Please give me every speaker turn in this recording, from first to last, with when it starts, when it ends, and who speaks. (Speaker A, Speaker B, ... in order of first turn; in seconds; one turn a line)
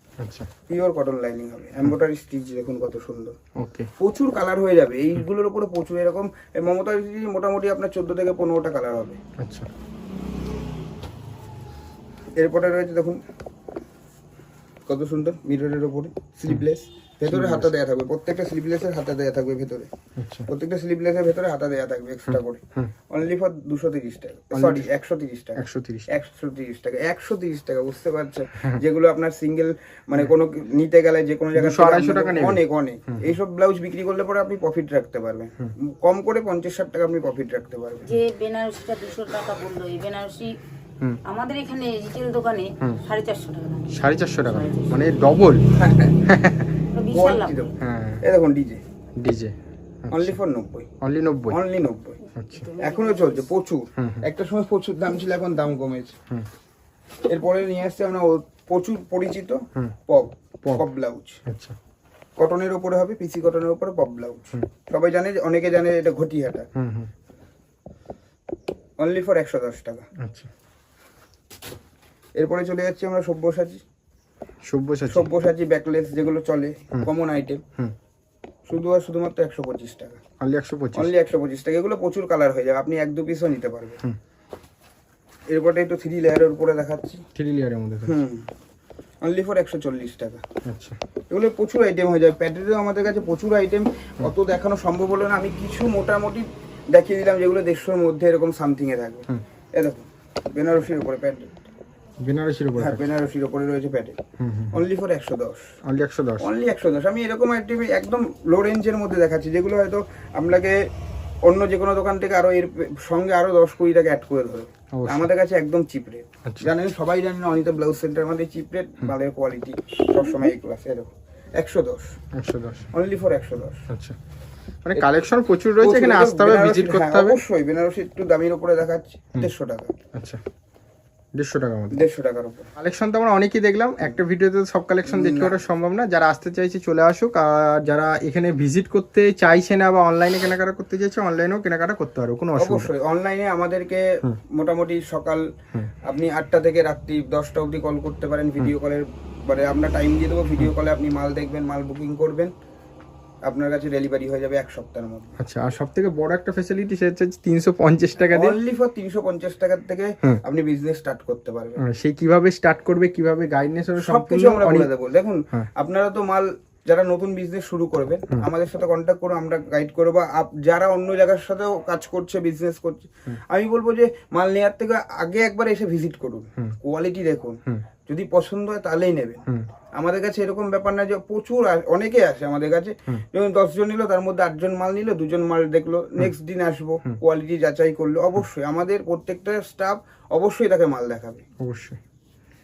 Speaker A: 0.2-0.5
Speaker B: 0.7-3.4
Speaker A: 3.6-3.9
Speaker B: 4.0-9.2
Speaker A: 9.4-9.7
Speaker B: 12.4-13.2
Speaker B: 14.9-19.9
Speaker A: 17.2-17.7
Speaker A: 20.2-20.5
Speaker B: 20.5-38.1
Speaker A: 22.3-22.9
Speaker A: 24.5-24.9
Speaker A: 25.6-26.1
Speaker A: 31.6-33.3
Speaker C: 38.1-40.5
Speaker C: 41.3-45.1
Speaker A: 43.9-45.6
Speaker B: 45.7-46.2
Speaker A: 46.3-46.7
Speaker C: 46.9-47.5
Speaker B: 47.1-48.8
Speaker A: 47.8-48.2
Speaker A: 49.2-50.4
Speaker B: 50.1-50.9
Speaker A: 51.0-51.6
Speaker B: 51.5-52.2
Speaker A: 52.4-52.7
Speaker C: 52.6-53.5
Speaker B: 52.8-56.1
Speaker A: 54.0-54.2
Speaker B: 57.3-61.4
Speaker A: 61.5-61.8
Speaker B: 62.4-66.7
Speaker A: 66.8-67.1
Speaker B: 69.0-70.0
Speaker A: 70.2-70.5
Speaker B: 72.4-73.8
Speaker A: 74.7-75.3
Speaker B: 75.1-77.6
Speaker B: 78.7-80.2
Speaker A: 80.4-81.1
Speaker B: 81.0-84.0
Speaker B: 85.5-87.2
Speaker A: 87.3-88.2
Speaker B: 88.0-88.5
Speaker B: 89.2-90.4
Speaker A: 90.7-91.0
Speaker B: 91.3-101.6
Speaker A: 102.2-103.1
Speaker B: 102.8-104.2
Speaker A: 104.4-104.8
Speaker B: 104.7-105.7
Speaker A: 105.9-106.5
Speaker B: 106.4-110.8
Speaker B: 111.5-122.1
Speaker A: 114.9-115.3
Speaker A: 116.5-116.7
Speaker A: 122.4-122.9
Speaker B: 122.9-123.9
Speaker A: 123.9-124.2
Speaker A: 124.8-127.4
Speaker B: 125.8-129.9
Speaker A: 130.1-130.4
Speaker A: 131.4-132.0
Speaker B: 131.9-132.7
Speaker A: 132.8-142.9
Speaker B: 135.1-135.6
Speaker B: 142.6-145.4
Speaker B: 146.1-152.5
Speaker B: 153.5-155.3
Speaker A: 155.4-158.6
Speaker B: 158.3-161.8
Speaker A: 161.8-164.9
Speaker B: 164.0-179.4
Speaker B: 180.0-191.4
Speaker A: 191.6-192.0